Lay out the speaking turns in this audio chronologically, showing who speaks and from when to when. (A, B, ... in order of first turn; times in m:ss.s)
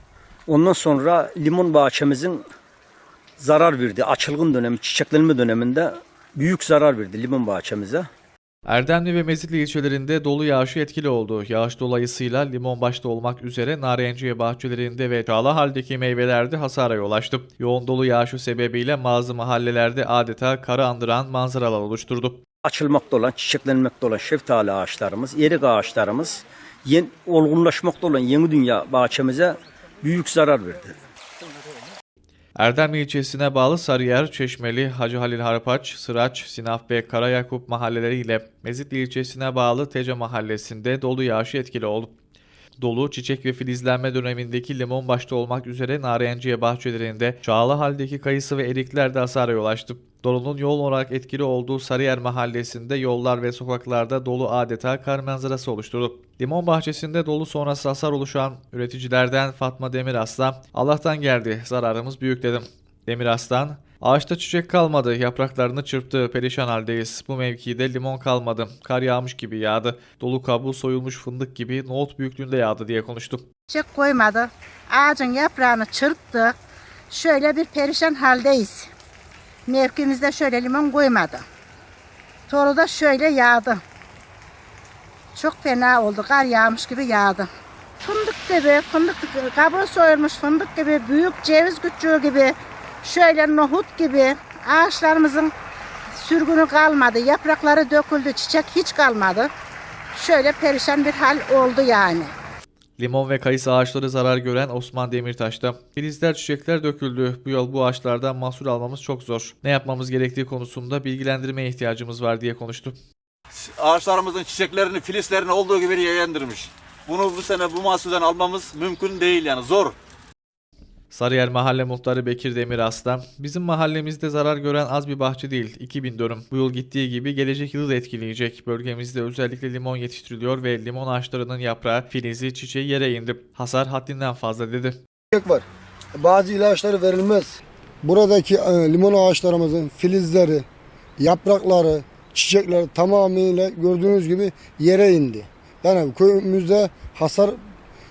0:00.5-0:02.4 A
0:03.4-0:08.1 A
0:08.7-0:22.4 B
0:22.6-0:30.9 A
0:32.6-0:42.1 B
0:42.8-1:13.4 B
1:13.7-1:16.5 C
1:17.1-1:18.9 C
1:19.7-1:21.4 C
1:22.5-1:23.8 C
1:25.4-1:27.5 C
1:28.0-1:35.5 C
1:36.2-1:39.5 C
1:40.2-1:42.3 C
1:43.0-1:53.0 B
1:53.5-2:00.0 D
2:01.1-2:15.0 B
2:15.3-2:15.6 E
2:16.2-2:20.7 E
2:21.2-2:27.6 E